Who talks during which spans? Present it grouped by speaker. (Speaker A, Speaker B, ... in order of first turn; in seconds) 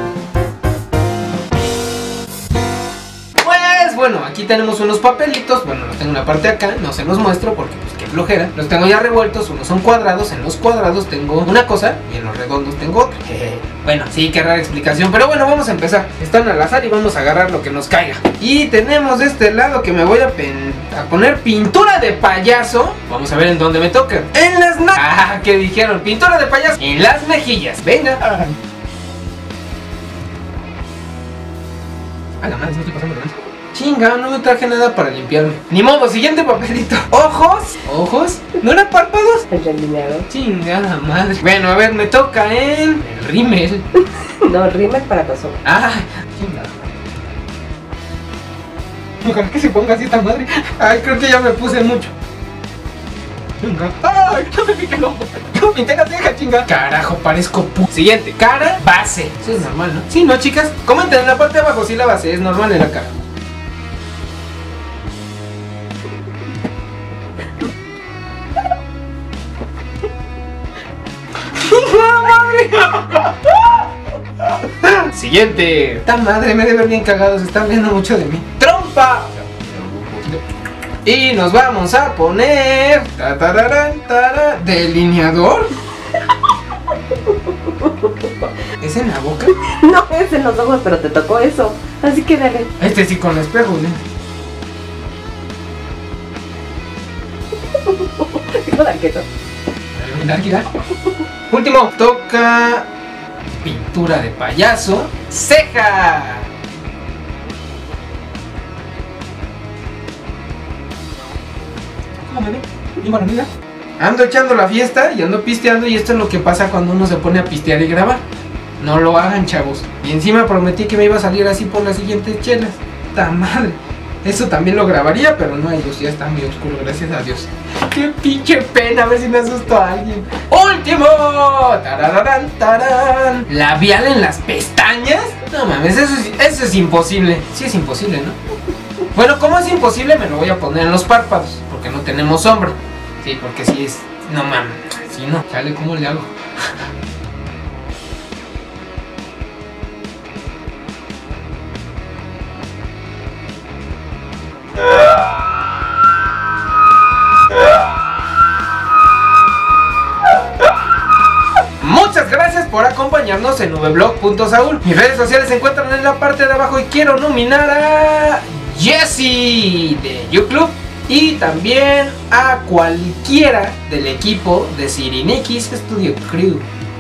Speaker A: 3.4-28.5, 32.4-39.5, 40.3-43.8, 45.6-46.9, 49.2-52.1, 53.6-63.1, 71.5-73.3, 74.8-80.4, 81.0-85.8, 88.8-89.6, 92.8-94.0, 99.9-100.7, 101.5-102.9, 103.6-106.5, 112.2-118.2, 118.8-138.3, 139.1-146.3, 161.8-176.7
Speaker B: 39.5-40.3, 44.2-45.6, 87.3-88.3, 89.6-92.7, 97.8-99.3